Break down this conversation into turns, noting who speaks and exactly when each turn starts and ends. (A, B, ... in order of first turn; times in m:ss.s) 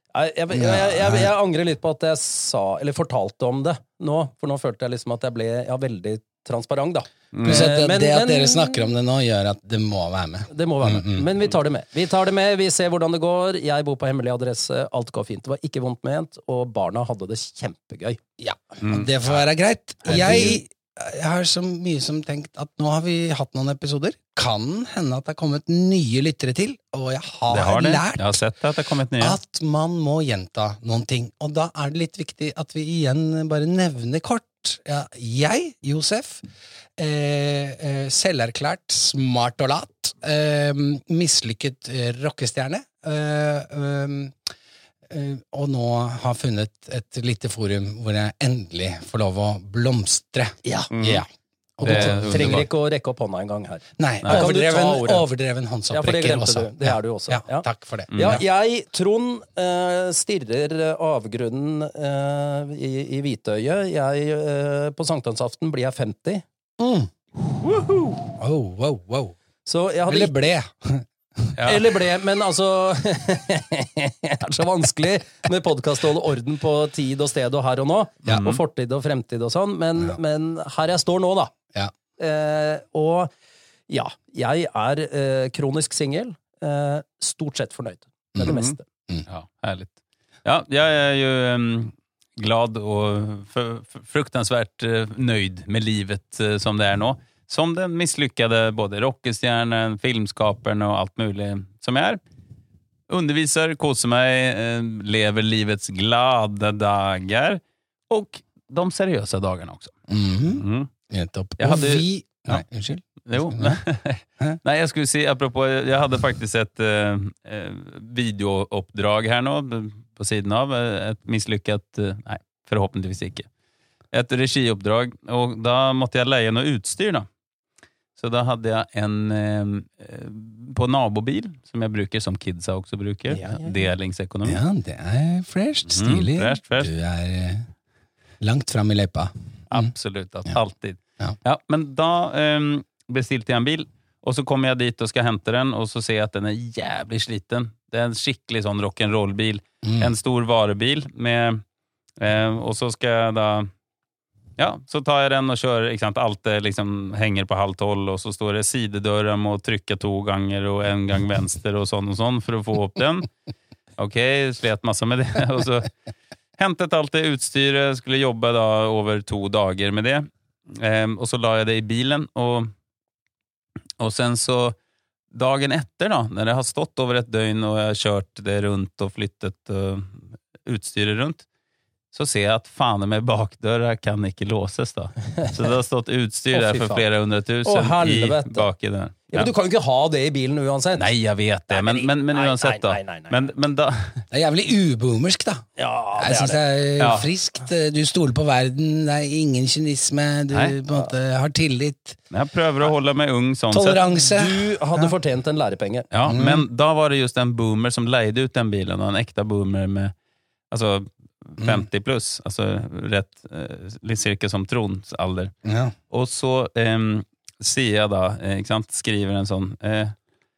0:00.1-0:08.9 A
0:00.5-0:01.3 B
0:07.3-0:07.7 C
0:07.4-0:11.3 B
0:10.5-0:18.2 A
0:18.4-0:28.4 B
0:18.8-0:19.2 C
0:20.1-0:20.6 A
0:27.5-0:29.4 C
0:29.2-0:36.4 B
0:37.0-0:44.5 B
0:45.1-0:51.3 B
0:50.6-0:50.9 A
0:50.9-0:51.2 C
0:51.8-0:52.6 B
0:51.8-0:55.2 A
0:51.8-0:52.7 C
0:54.0-0:58.4 B
0:55.9-1:06.4 A
0:58.1-0:58.4 C
1:06.8-1:07.1 B
1:07.6-1:08.1 A
1:08.4-1:09.4 B
1:09.6-1:10.3 A
1:10.1-1:11.6 B
1:11.6-1:11.8 C
1:11.6-1:21.5 A
1:18.3-1:18.5 B
1:18.3-1:18.6 C
1:22.2-1:23.3 A
1:23.9-1:28.8 A
1:28.4-1:28.8 C
1:29.3-1:42.2 C
1:43.1-1:50.0 C
1:50.1-1:53.8 B
1:50.6-1:50.9 C
1:51.6-1:52.6 C
1:53.2-2:03.5 C
2:04.1-2:07.3 C
2:08.2-2:14.6 C
2:14.4-2:17.7 B
2:15.9-2:16.9 C
2:18.4-2:19.9 B
2:19.7-2:31.6 C
2:29.8-2:30.1 B
2:32.2-2:33.7 C
2:34.6-2:43.3 C
2:44.0-2:45.9 C
2:46.6-2:52.7 C
2:54.0-2:54.8 C
2:55.3-3:01.4 C
3:02.1-3:09.5 C
3:06.5-3:07.0 A
3:07.6-3:08.7 A
3:09.3-3:11.1 A
3:11.0-3:14.2 C
3:11.7-3:13.4 A
3:14.3-3:15.7 B
3:15.8-3:16.6 A
3:16.2-3:22.2 B
3:17.0-3:17.3 C
3:22.3-3:24.0 C
3:23.7-3:25.1 B
3:24.1-3:26.1 A
3:26.1-3:30.1 C
3:26.3-3:26.6 B
3:30.7-3:35.5 C
3:31.6-3:31.9 B
3:35.6-3:35.9 B
3:36.1-3:40.2 C